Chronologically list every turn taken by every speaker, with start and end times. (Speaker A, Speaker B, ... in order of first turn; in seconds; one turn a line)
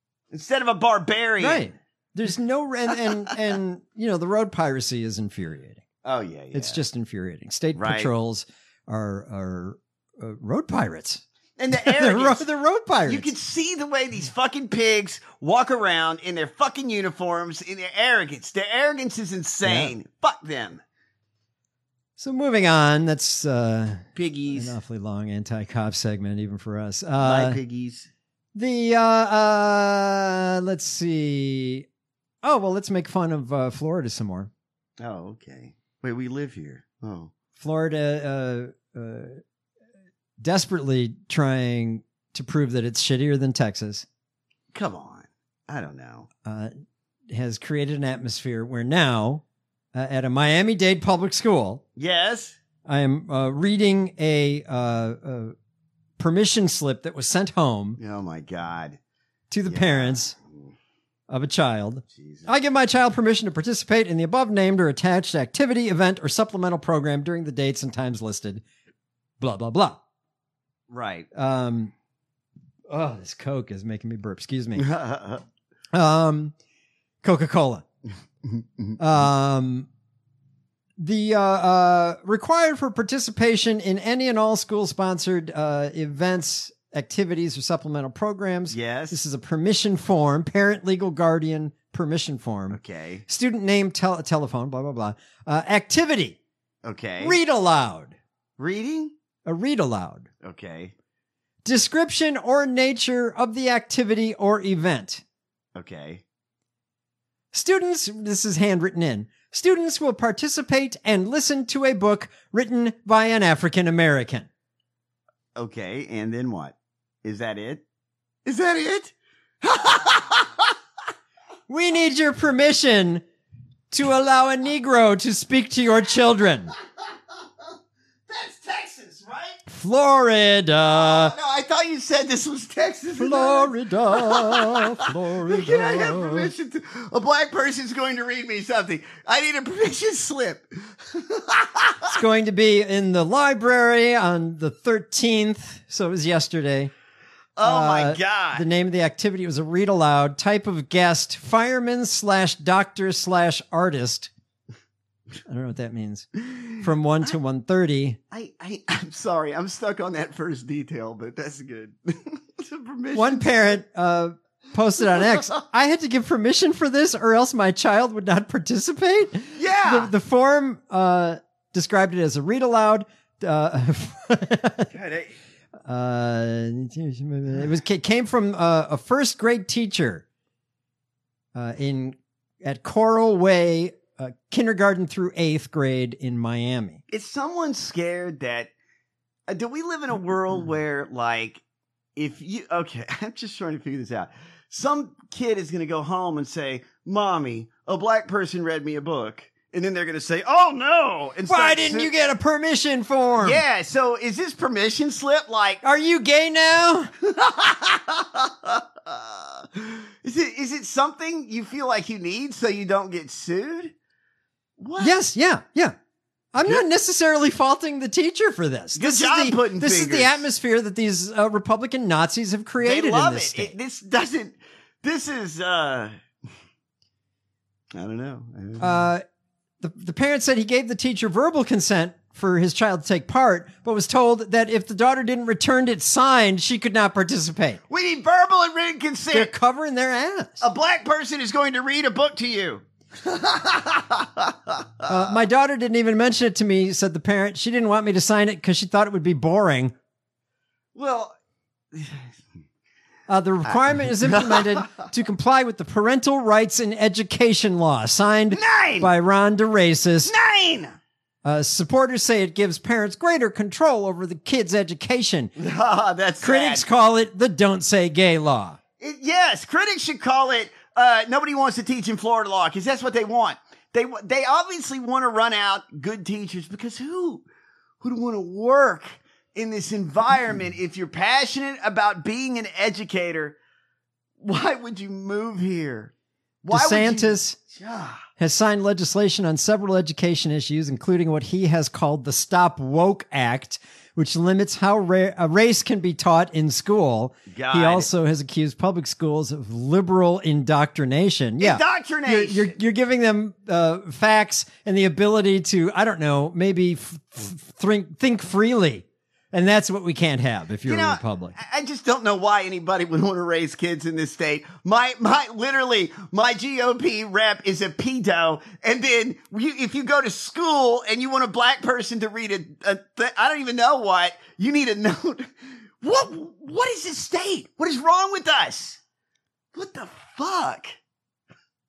Speaker A: 0.3-1.7
Speaker B: 1.4-5.8
Speaker A: 6.0-6.8
Speaker B: 6.5-13.3
Speaker A: 7.8-8.1
Speaker A: 11.6-12.5
Speaker A: 13.0-20.8
Speaker B: 19.6-19.9
Speaker B: 22.2-27.6
Speaker A: 24.2-24.8
Speaker A: 27.2-28.1
Speaker B: 28.6-31.9
Speaker B: 32.4-34.5
Speaker A: 35.0-37.3
Speaker B: 37.6-39.4
Speaker B: 40.4-44.1
Speaker A: 44.7-46.3
Speaker B: 46.5-46.7
Speaker B: 47.3-49.4
Speaker B: 49.9-51.8
Speaker A: 52.0-52.6
Speaker B: 52.9-55.5
Speaker B: 56.2-58.0
Speaker A: 58.0-59.0
Speaker B: 59.5-60.4
Speaker A: 59.7-60.7
Speaker B: 61.3-68.6
Speaker A: 62.1-62.5
Speaker B: 69.4-70.0
Speaker A: 70.9-71.3
Speaker B: 71.3-71.9
Speaker B: 72.9-74.9
Speaker A: 74.8-75.4
Speaker B: 75.9-76.5
Speaker B: 77.2-77.8
Speaker A: 78.5-79.0
Speaker B: 79.0-79.9
Speaker B: 81.0-96.4
Speaker A: 88.7-89.2
Speaker A: 92.7-93.2
Speaker A: 96.8-97.4
Speaker B: 97.2-98.2
Speaker A: 98.6-99.1
Speaker B: 99.5-100.3
Speaker A: 100.4-100.9
Speaker B: 101.7-105.2
Speaker A: 105.8-106.2
Speaker B: 107.5-114.5
Speaker A: 115.6-117.8
Speaker A: 118.5-120.7
Speaker B: 121.7-123.2
Speaker B: 123.9-126.7
Speaker A: 128.3-129.6
Speaker B: 129.7-131.3
Speaker A: 130.9-142.2
Speaker B: 133.2-136.5
Speaker B: 142.2-146.9
Speaker A: 147.6-148.7
Speaker B: 147.6-154.3
Speaker B: 155.5-158.2
Speaker A: 158.3-163.8
Speaker B: 163.2-174.9
Speaker A: 169.6-170.1
Speaker A: 174.9-175.3
Speaker B: 175.8-180.2
Speaker B: 181.6-187.0
Speaker A: 187.1-188.7
Speaker A: 189.5-191.6
Speaker A: 192.2-202.1
Speaker B: 201.5-203.6
Speaker A: 203.4-205.8
Speaker B: 205.8-207.1
Speaker A: 207.2-213.9
Speaker A: 214.8-215.2
Speaker B: 215.0-216.0
Speaker B: 216.5-223.7
Speaker A: 216.6-216.9
Speaker A: 218.9-220.5
Speaker A: 222.8-226.2
Speaker A: 227.9-229.1
Speaker B: 228.8-229.2
Speaker B: 229.8-237.8
Speaker A: 237.9-239.5
Speaker B: 239.3-240.6
Speaker A: 240.6-245.2
Speaker B: 245.1-249.9
Speaker A: 250.9-251.3
Speaker A: 251.9-252.3
Speaker B: 253.3-260.3
Speaker A: 253.7-255.1
Speaker A: 258.5-259.1
Speaker A: 260.2-261.0
Speaker B: 261.4-265.5
Speaker A: 265.6-266.9
Speaker B: 266.4-268.8
Speaker A: 269.0-277.4
Speaker A: 278.0-283.6
Speaker A: 284.4-286.1
Speaker A: 286.6-288.3
Speaker B: 286.7-287.6
Speaker B: 288.4-311.6
Speaker A: 297.5-298.1
Speaker A: 301.6-302.8
Speaker A: 310.9-325.5
Speaker A: 326.0-329.0
Speaker A: 329.7-330.9